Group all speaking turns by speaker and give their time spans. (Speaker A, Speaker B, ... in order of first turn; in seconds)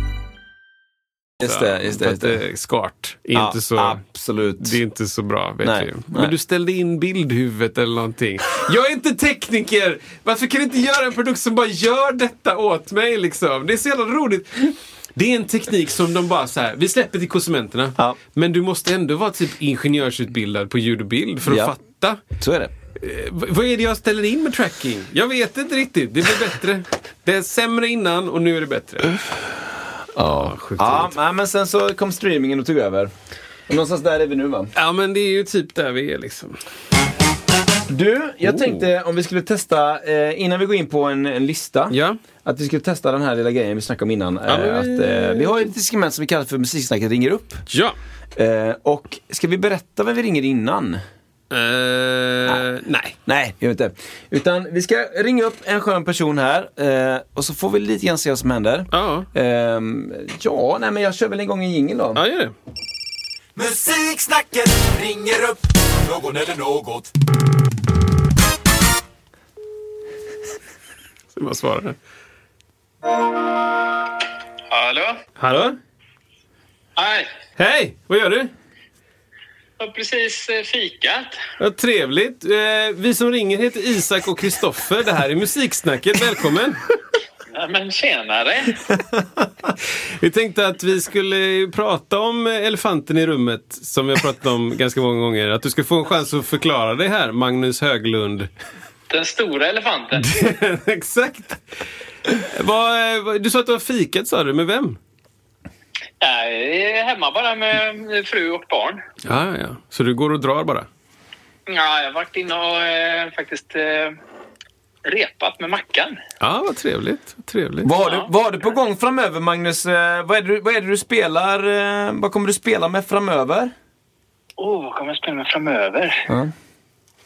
Speaker A: 1.4-2.4, 3.3-4.8, 5.6-6.3, 21.5-21.7, 22.4-22.7, 30.2-33.1, 33.7-34.7, 37.9-47.6, 48.4-51.0, 53.3-62.2, 117.8-123.7
Speaker B: 1.4-4.0, 4.6-22.2, 23.0-29.2, 30.2-31.1, 34.8-36.6, 38.4-38.9, 41.9-42.2, 44.5-45.7, 47.7-48.0, 51.5-53.1, 58.9-59.3, 62.1-62.5, 71.3-72.0, 75.4-75.8, 77.6-78.5, 81.6-86.8, 90.2-98.5, 100.2-101.6, 102.4-105.0, 109.2-110.9, 116.4-117.9
Speaker C: 63.6-67.0
Speaker D: 74.7-75.2, 77.0-77.3, 79.8-81.3, 87.5-88.8, 99.1-100.3, 106.2-109.0, 111.7-114.2, 115.0-116.2, 118.0-118.3, 124.6-126.2